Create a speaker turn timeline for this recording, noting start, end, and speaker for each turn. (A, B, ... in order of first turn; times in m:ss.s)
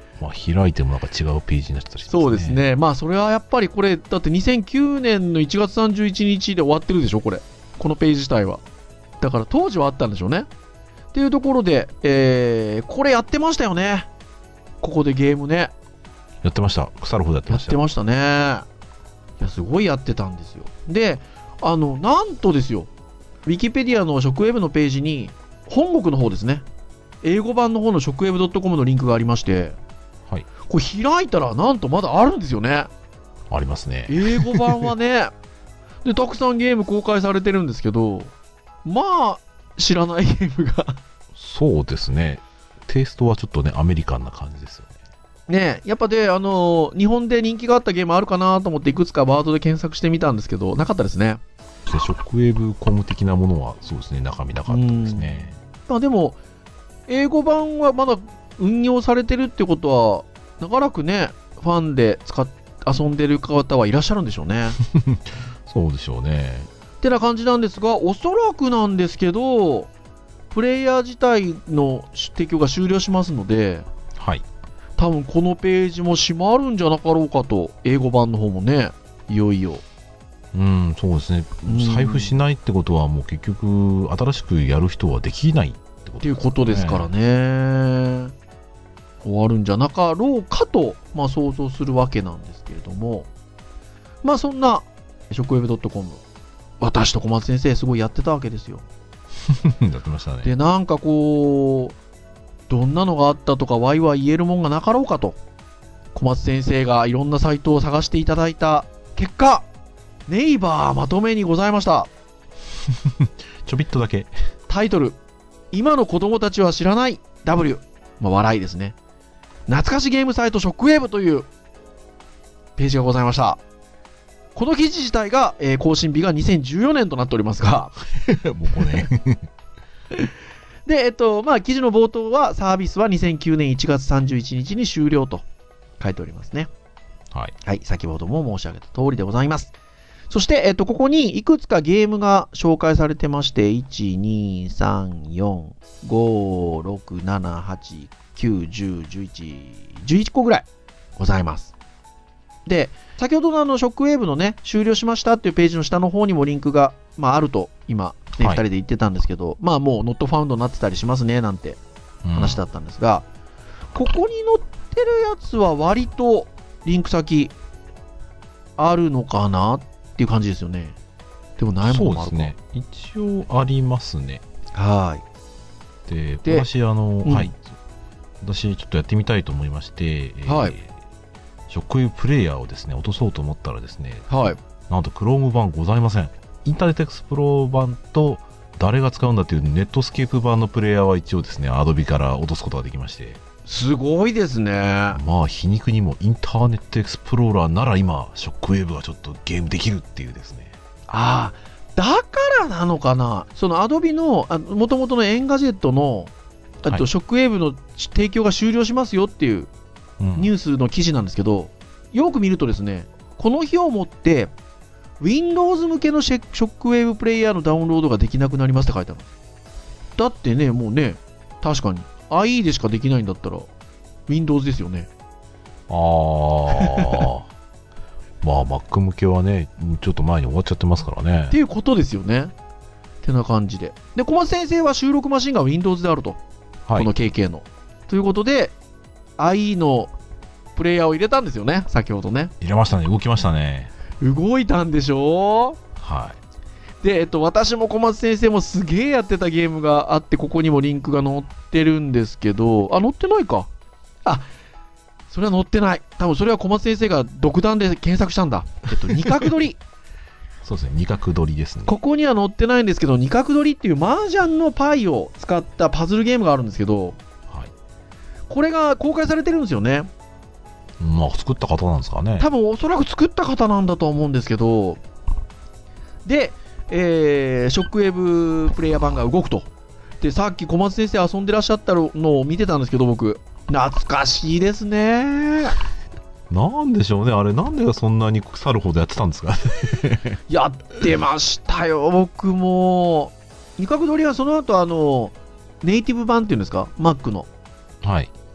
0:00.2-0:02.6 A
0:02.1-0:08.6 B
0:09.2-0:10.5 B
0:11.1-0:14.1 B
0:14.8-0:15.7 B
0:16.4-0:17.8 A
0:17.5-0:18.6 B
0:19.4-0:22.9 B
0:23.4-0:26.6 B
0:27.2-0:29.8 B
0:30.7-0:32.9 B
0:33.5-0:34.9 A
0:34.1-0:35.3 B
0:36.0-0:38.3 B
0:38.8-0:41.0 B
0:41.3-0:44.9 A
0:45.5-0:51.4 B
0:51.8-0:55.6 A
0:54.7-0:56.4 B
0:57.1-1:04.8 B
1:04.8-1:06.7 A
1:07.0-1:09.9 B
1:10.5-1:13.8 B
1:14.1-1:14.4 A
1:15.0-1:19.8 B
1:20.5-1:27.1 A
1:21.6-1:22.3 B
1:26.2-1:28.3 B
1:29.2-1:33.3 B
1:34.2-1:36.2 B
1:36.8-1:38.8 B
1:39.4-1:40.5 A
1:40.4-1:42.0 B
1:42.7-1:45.4 B
1:46.1-1:49.6 B
1:50.3-1:52.1 B
1:52.9-1:54.3 A
1:54.7-1:55.2 B
1:55.7-1:59.0 B
1:59.7-2:01.5 B
2:02.8-2:03.6 B
2:04.5-2:08.0 B
2:08.1-2:09.5 A
2:10.8-2:15.4 B
2:16.0-2:16.7 B
2:17.6-2:19.7 B
2:20.3-2:30.6 B
2:31.2-2:31.7 B
2:32.6-2:41.8 B
2:42.2-2:42.6 A
2:42.3-2:43.2 B
2:43.9-2:47.5 B
2:48.8-2:51.0 B
2:51.6-2:52.5 B
2:51.8-2:54.4 A
2:54.7-2:55.2 B
2:56.0-2:57.7 A
2:57.2-2:57.5 B
2:58.4-3:00.9 A
3:00.4-3:00.7 B
3:01.7-3:04.3 A
3:04.3-3:04.6 B
3:04.9-3:13.4 A
3:13.6-3:15.2 B
3:15.1-3:20.8 A
3:21.1-3:26.3 B
3:26.8-3:29.7 B
3:30.2-3:30.5 A
3:30.4-3:34.5 B
3:35.2-3:39.3 B
3:40.2-3:43.7 B
3:44.3-3:45.1 B
3:45.9-3:47.5 A
3:46.8-3:47.2 B
3:48.4-3:51.6 A
3:51.5-3:52.5 B
3:53.2-3:56.4 B
3:56.9-3:58.7 B
3:59.4-4:00.1 B
4:00.8-4:02.5 B
4:02.6-4:03.9 A
4:04.2-4:05.8 B
4:06.0-4:06.4 A
4:07.0-4:13.7 B
4:15.3-4:19.8 B
4:20.6-4:22.0 A
4:21.8-4:27.2 B
4:28.5-4:30.1 B
4:31.0-4:32.5 A
4:32.4-4:35.0 B
4:36.2-4:39.7 B
4:40.2-4:45.8 B
4:46.5-4:50.4 A
4:50.5-4:57.5 B
4:58.0-4:58.3 A